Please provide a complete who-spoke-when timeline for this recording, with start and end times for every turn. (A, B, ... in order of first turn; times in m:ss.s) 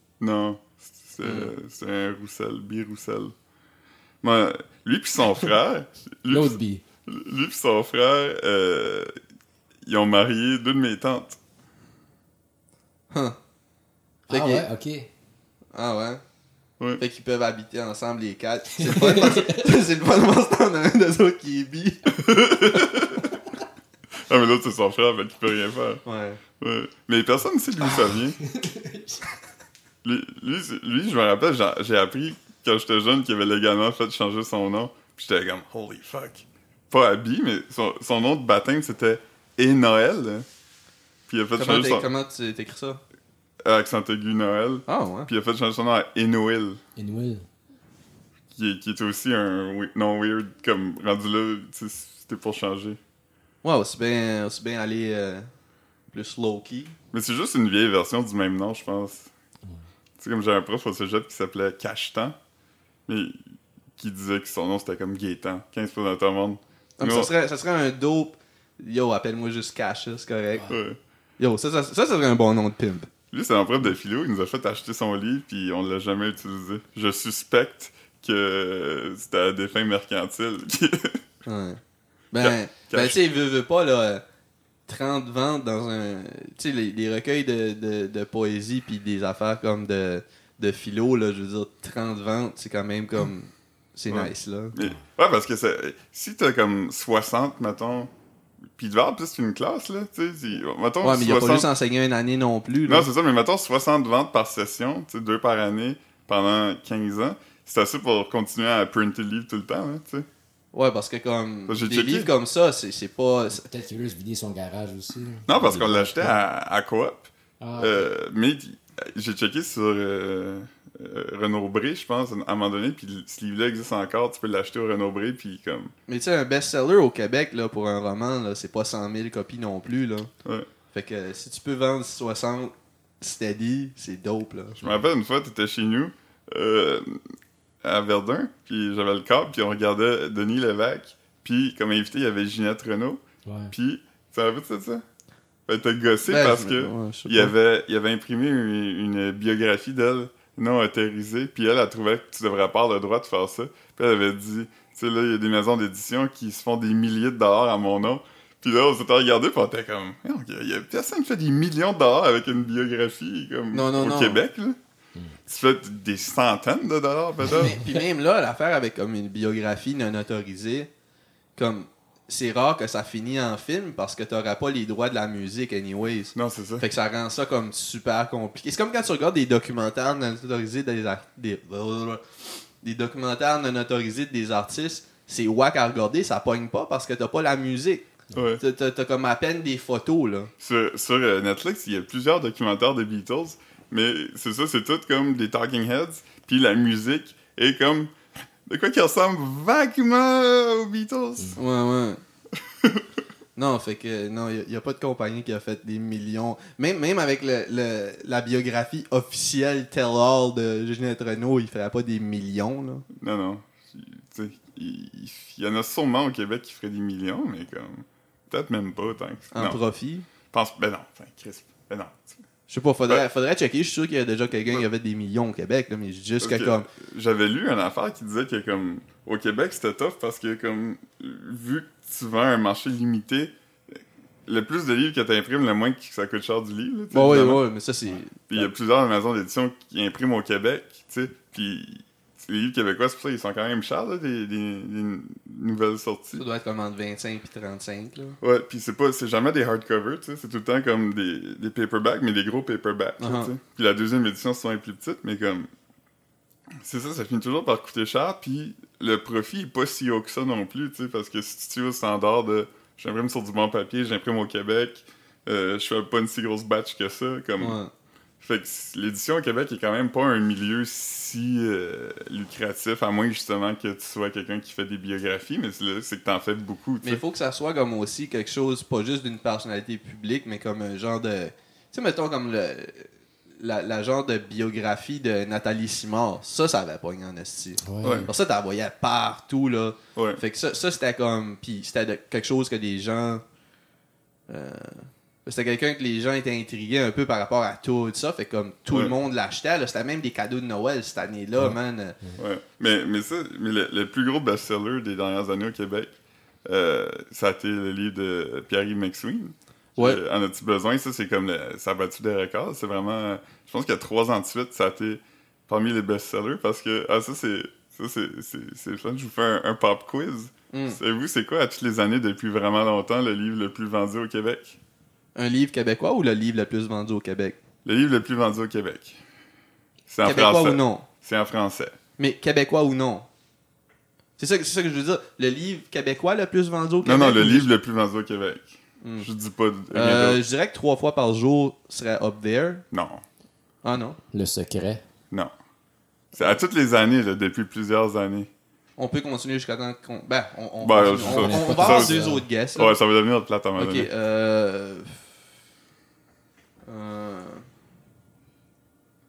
0:00.2-0:03.3 A
0:01.2-0:01.5 B
0:04.2-0:09.1 A
0:06.3-0:06.8 C
0:09.8-0:11.4 A
0:13.1-0:13.4 B
0:14.3-0:15.1 C
0:14.3-0:14.7 B
0:15.7-0:16.2 B
0:17.0-0:22.9 B
0:18.8-0:19.7 C
0:22.2-0:23.3 A
0:24.2-0:26.0 A
0:26.0-0:26.4 B
0:26.6-0:28.4 A
0:28.4-0:29.2 C
0:30.0-0:40.5 A
0:41.3-0:42.1 A
0:41.6-0:43.0 B
0:43.6-0:46.8 A
0:44.9-0:45.3 B
0:47.0-0:47.4 C
0:48.5-0:53.0 A
0:53.6-0:55.5 B
0:56.1-0:56.9 B
0:57.1-0:59.3 A
1:00.2-1:02.4 A
1:03.1-1:03.4 A
1:04.0-1:07.3 A
1:07.0-1:10.7 B
1:10.7-1:11.0 A
1:11.4-1:13.1 B
1:13.3-1:21.2 A
1:21.5-1:21.8 B
1:22.3-1:24.2 B
1:22.4-1:23.2 A
1:24.9-1:34.8 B
1:34.1-1:38.1 A
1:38.8-1:41.7 A
1:41.0-1:43.1 B
1:42.9-1:50.3 A
1:50.7-1:53.6 B
1:51.7-1:52.3 A
1:53.5-1:56.4 C
1:55.5-2:05.9 A
1:57.6-1:58.1 C
2:06.1-2:10.3 B
2:10.9-2:14.8 B
2:14.8-2:17.2 A
2:17.8-2:25.0 A
2:23.5-2:23.7 C
2:25.7-2:44.8 A
2:26.3-2:27.5 B
2:43.7-2:44.4 B
2:45.5-2:47.8 A
2:47.6-2:50.9 B
2:51.6-3:02.2 B
2:56.4-2:56.8 A
3:02.8-3:08.1 B
3:08.3-3:08.6 A
3:08.6-3:10.5 B
3:10.6-3:18.1 A
3:18.7-3:21.6 A
3:21.6-3:22.2 B
3:22.8-3:23.0 A
3:23.6-3:33.1 B
3:33.1-3:39.8 A
3:39.5-3:40.3 B
3:40.5-3:42.4 A
3:42.7-3:46.9 B
3:46.4-3:53.5 A
3:54.5-3:57.6 A
3:57.1-3:58.7 B
3:58.5-4:06.4 A
4:06.3-4:08.4 B
4:08.4-4:15.7 A
4:13.2-4:13.5 B
4:16.8-4:27.8 A
4:27.6-4:27.9 B
4:28.4-4:37.2 A
4:37.0-4:53.4 B
4:47.8-4:48.3 C
4:48.0-4:48.3 A
4:50.2-4:50.4 A
4:54.5-5:02.2 B
5:01.6-5:02.4 C
5:02.4-5:06.1 A
5:06.6-5:24.8 A
5:20.7-5:21.0 B
5:25.4-5:27.6 B
5:27.8-5:29.2 A
5:30.1-5:32.0 A
5:30.2-5:31.1 B
5:32.2-5:33.3 B
5:34.4-5:37.7 B
5:37.0-5:40.4 A
5:39.0-5:39.3 B
5:39.9-5:42.8 B
5:42.9-5:43.2 A
5:43.8-5:44.2 B
5:44.3-5:45.0 C
5:46.3-5:48.5 A
5:49.0-5:53.0 B
5:50.8-5:54.1 A
5:51.2-5:52.4 C
5:53.8-5:55.2 B
5:56.9-5:57.7 B